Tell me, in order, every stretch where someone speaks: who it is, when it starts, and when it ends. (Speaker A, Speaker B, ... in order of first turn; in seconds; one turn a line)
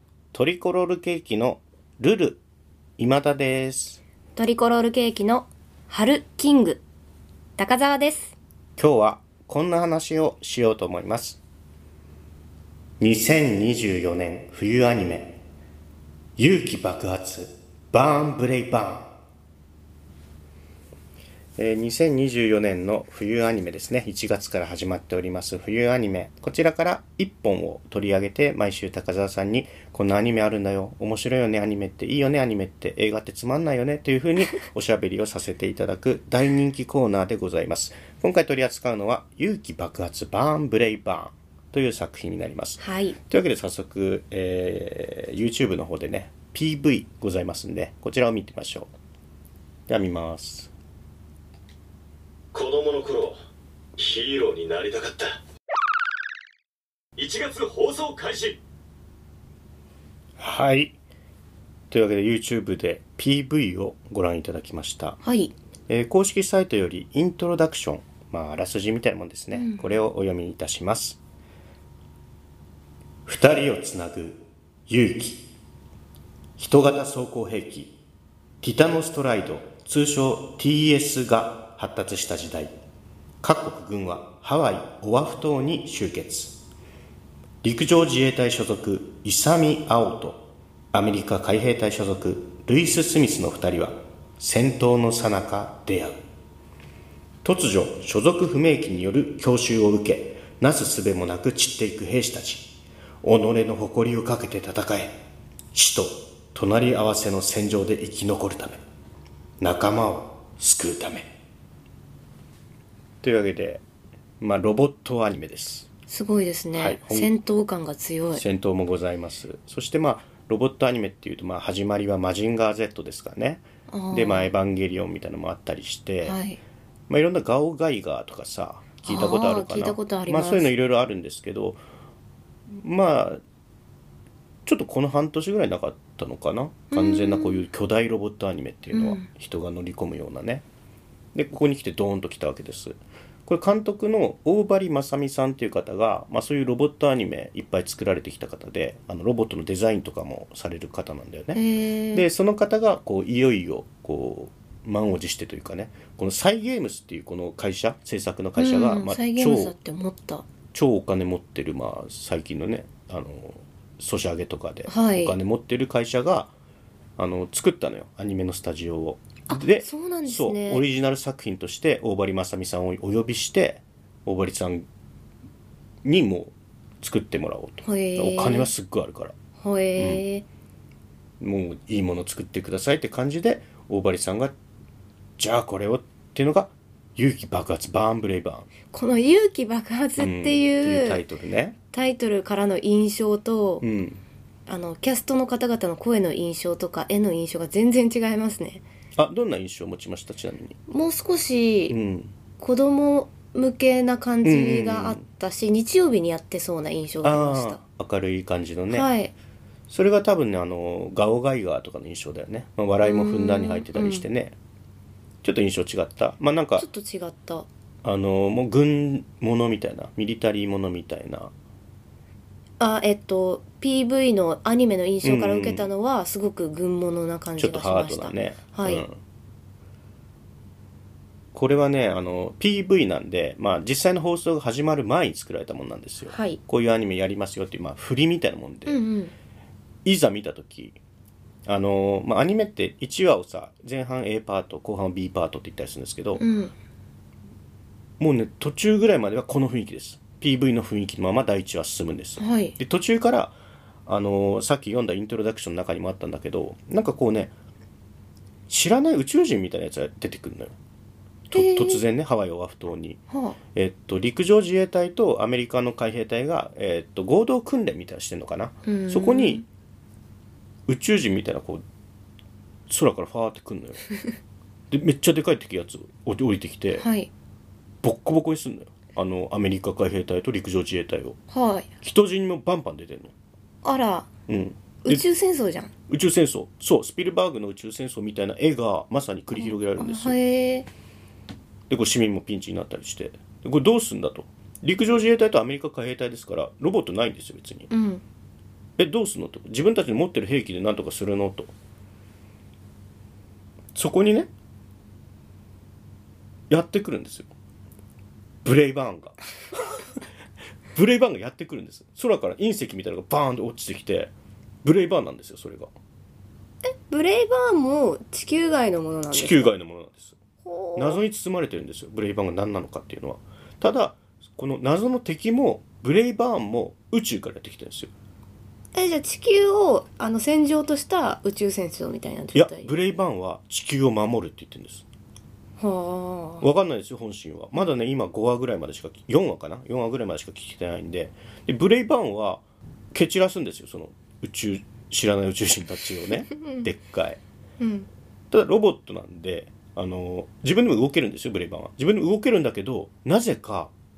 Speaker A: 0.3-2.4
Speaker A: 3.0-4.0
Speaker B: 4.3-6.8
Speaker B: 7.6-8.3
Speaker A: 8.8-11.4
Speaker A: 13.0-15.4
Speaker A: 16.4-19.1
Speaker A: 21.6-48.9
Speaker B: 42.8-43.2
Speaker A: 49.9-50.7
Speaker C: 52.5-53.3
Speaker C: 54.0-55.4
Speaker C: 57.2-58.6
Speaker A: 60.4-61.0
Speaker A: 61.9-65.2
Speaker B: 65.2-65.5
Speaker A: 65.9-71.2
Speaker B: 69.5-70.0
Speaker A: 73.2-75.5
Speaker A: 76.6-77.9
Speaker A: 78.6-82.7
Speaker A: 83.4-86.6
Speaker A: 87.6-96.2
Speaker A: 97.4-105.2
Speaker A: 105.7-108.8
Speaker A: 109.6-111.3
Speaker A: 113.2-113.8
Speaker A: 114.4-115.9
Speaker B: 116.1-118.4
Speaker A: 116.7-117.3
Speaker A: 118.3-126.4
Speaker B: 123.9-124.5
Speaker B: 126.2-126.6
Speaker A: 127.1-131.8
Speaker B: 129.1-130.7
Speaker A: 132.7-133.4
Speaker A: 134.7-140.6
Speaker B: 136.9-137.6
Speaker B: 138.9-139.2
Speaker A: 141.3-151.6
Speaker B: 151.5-152.2
Speaker A: 152.1-159.7
Speaker B: 158.6-160.5
Speaker A: 160.7-166.5
Speaker B: 164.9-165.3
Speaker A: 167.2-174.8
Speaker B: 169.5-170.8
Speaker A: 176.0-179.3
Speaker B: 177.8-178.7
Speaker B: 179.6-180.4
Speaker A: 180.0-180.2
Speaker A: 181.4-184.5
Speaker A: 185.4-188.7
Speaker B: 188.9-191.2
Speaker A: 190.2-191.8
Speaker B: 191.9-193.8
Speaker A: 193.8-194.2
Speaker B: 194.7-198.8
Speaker A: 199.2-200.8
Speaker B: 200.9-202.0
Speaker A: 201.9-202.3
Speaker B: 202.6-207.8
Speaker A: 204.4-205.2
Speaker A: 207.2-209.1
Speaker B: 208.9-209.3
Speaker A: 209.9-214.6
Speaker B: 213.0-214.2
Speaker A: 215.4-216.9
Speaker B: 216.8-217.7
Speaker A: 218.0-221.5
Speaker B: 222.8-229.1
Speaker A: 225.2-225.9
Speaker A: 227.6-229.2
Speaker A: 231.5-239.0
Speaker B: 236.3-236.6
Speaker B: 238.8-239.3
Speaker A: 240.0-241.0
Speaker A: 241.7-246.4
Speaker B: 246.4-246.7
Speaker A: 248.2-253.5
Speaker B: 252.4-252.8
Speaker A: 254.1-257.5
Speaker A: 258.7-260.7
Speaker A: 261.5-263.2
Speaker B: 261.5-262.0
Speaker B: 263.3-263.6
Speaker A: 263.7-269.6
Speaker B: 268.9-269.6
Speaker A: 270.9-271.8
Speaker A: 272.9-274.0
Speaker A: 274.9-277.1
Speaker B: 277.0-277.3
Speaker A: 278.0-281.4
Speaker B: 281.5-281.9
Speaker A: 282.0-283.3
Speaker B: 283.8-284.3
Speaker A: 284.5-285.2
Speaker B: 285.0-285.9
Speaker A: 286.1-290.4
Speaker B: 289.6-290.9
Speaker A: 291.9-297.9
Speaker B: 297.9-298.2
Speaker A: 299.0-301.7
Speaker A: 303.9-304.5
Speaker A: 306.7-307.5
Speaker A: 308.6-309.4
Speaker A: 310.9-314.3
Speaker A: 314.8-315.9
Speaker B: 316.9-319.7
Speaker A: 319.3-320.4
Speaker B: 320.6-321.2
Speaker A: 320.9-328.1
Speaker B: 328.9-332.9
Speaker A: 332.5-335.0
Speaker B: 335.8-336.6
Speaker A: 336.6-342.6
Speaker A: 343.1-347.4
Speaker B: 347.8-348.1
Speaker A: 348.5-353.9